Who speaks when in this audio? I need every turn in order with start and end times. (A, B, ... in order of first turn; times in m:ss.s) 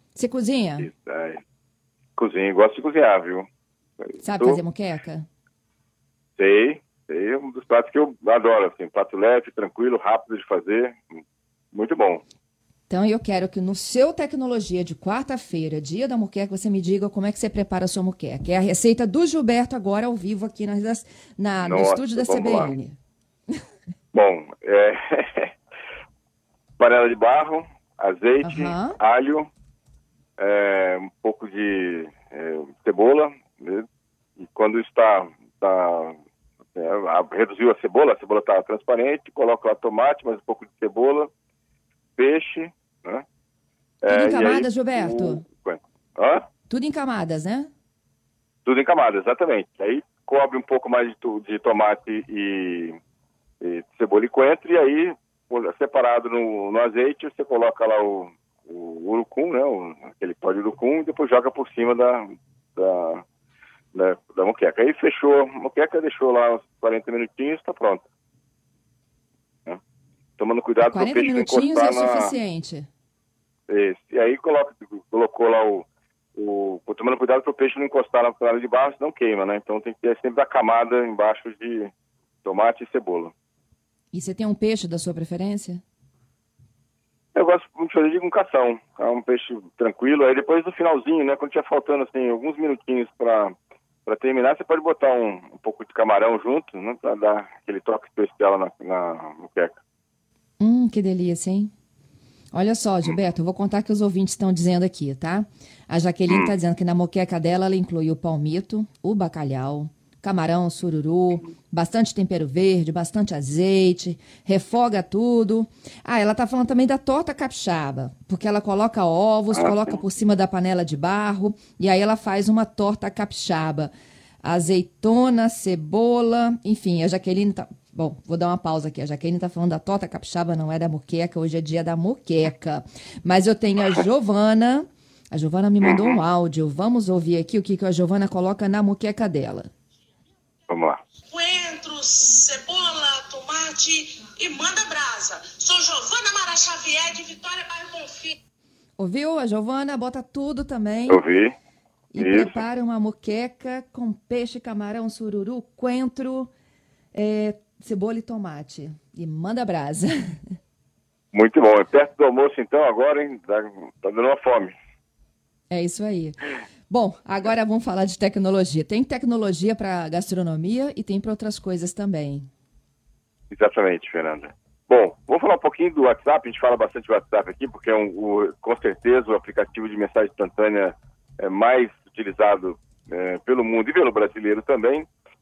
0:00.2-0:00.9 A
0:00.8-0:01.4 B
0:02.2-0:03.5 B
0:04.0-0:04.6 B
0:04.2-0:05.3 A
0:06.4-0:11.2 B
0:11.7-0:12.2 B
0:12.9-0:23.0 A
0:21.6-0:22.7 B
0:24.1-0:25.5 B
0:26.8-0:29.5 B
0:28.4-0:29.0 A
0:30.4-0:33.8 B
0:34.4-0:36.1 B
0:36.7-0:41.3 B
0:42.2-0:43.2 B
0:44.0-0:46.4 B
0:44.1-0:45.4 A
0:46.7-0:47.7 A
0:48.6-0:53.0 B
0:53.6-1:03.2 B
1:03.9-1:08.0 B
1:10.4-1:12.3 B
1:10.8-1:12.9 A
1:13.7-1:21.9 B
1:22.4-1:23.3 B
1:24.1-1:25.8 A
1:27.3-1:33.5 B
1:34.1-1:39.8 B
1:40.6-1:41.7 A
1:42.5-2:03.9 A
1:46.3-1:46.6 B
1:59.5-2:00.0 B
2:04.4-2:19.7 A
2:15.8-2:16.2 B
2:20.7-2:21.0 B
2:21.3-2:28.3 C
2:29.0-2:31.2 A
2:31.1-2:31.6 B
2:32.1-2:36.5 A
2:32.2-2:32.6 B
2:37.1-2:40.4 A
2:41.3-2:44.8 B
2:45.7-2:46.4 A
2:46.9-2:52.5 A
2:53.5-3:05.1 B